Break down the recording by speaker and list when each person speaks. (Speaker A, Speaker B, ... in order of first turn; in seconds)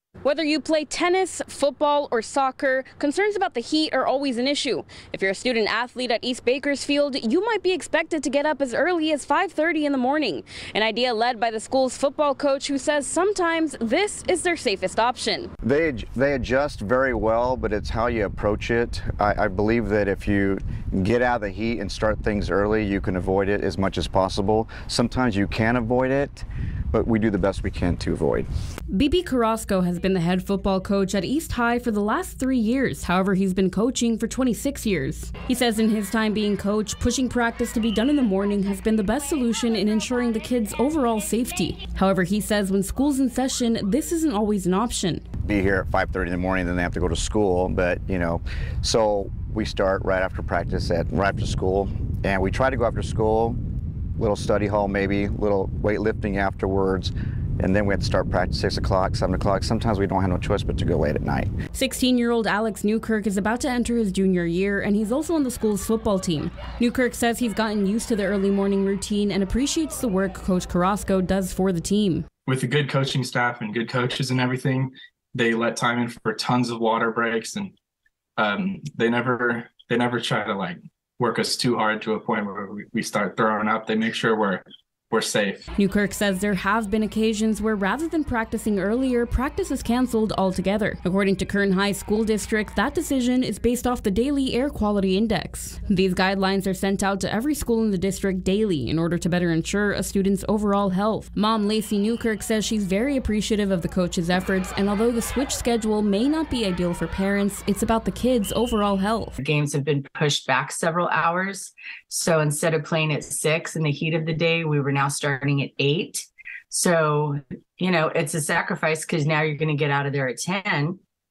Speaker A: 0.2-15.5, 28.9-45.2, 61.7-72.3, 85.8-109.3
Speaker B: 15.6-28.5, 45.5-53.6, 54.2-61.5
Speaker C: 72.5-77.7, 78.4-85.6
Speaker D: 109.4-121.0